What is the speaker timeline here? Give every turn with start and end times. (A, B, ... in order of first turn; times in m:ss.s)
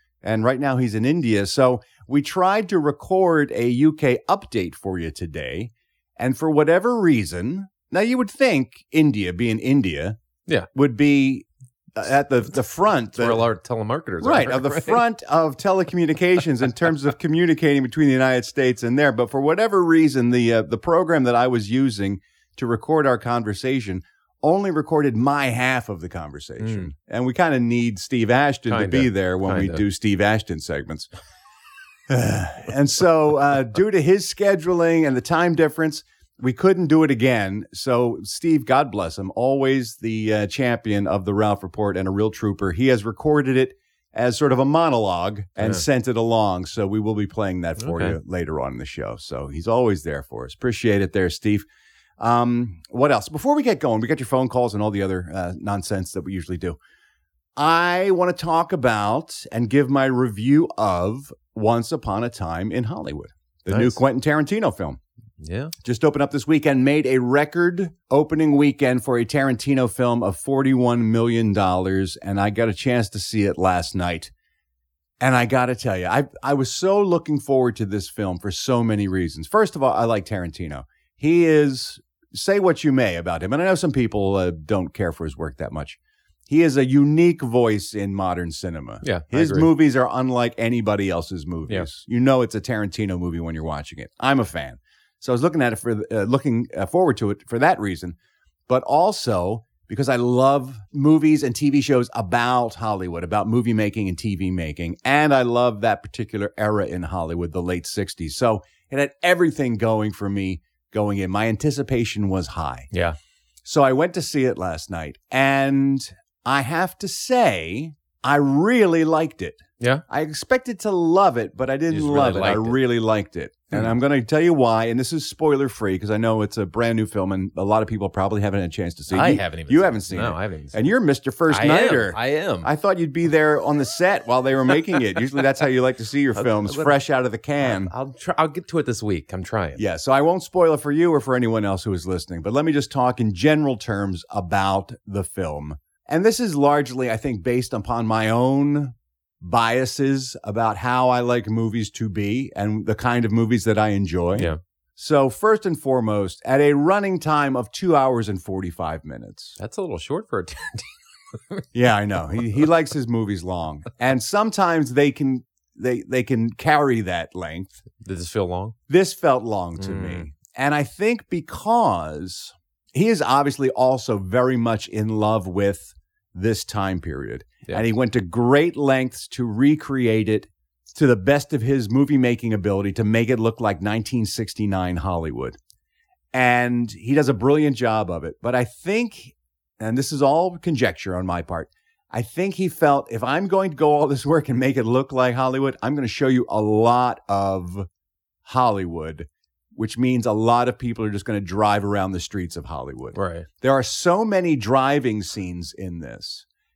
0:00.2-0:10.2 A
0:10.7-0:13.4 A
0:13.2-0:15.0 B
0:14.2-0:31.1 A
0:26.6-0:26.9 B
0:28.7-0:29.8 B
0:32.1-0:51.6 A
0:45.6-0:45.8 B
0:47.8-0:48.2 B
0:52.2-0:56.8 A
0:57.6-1:05.0 A
1:03.7-1:04.0 B
1:05.4-1:05.7 B
1:05.8-1:14.3 A
1:15.2-1:38.2 A
1:29.0-1:29.7 B
1:38.7-1:52.9 A
1:52.9-1:53.2 B
1:53.6-2:17.9 A
2:01.9-2:02.8 B
2:09.1-2:10.9 B
2:11.5-2:12.7 B
2:16.4-2:17.0 B
2:17.6-2:19.8 B
2:19.8-2:39.6 A
2:39.6-2:41.6 B
2:41.7-2:47.8 A
2:48.0-2:48.7 B
2:48.9-3:05.6 A
2:49.8-2:50.3 B
3:06.3-3:17.9 A
3:18.4-3:26.4 A
3:23.1-3:23.5 B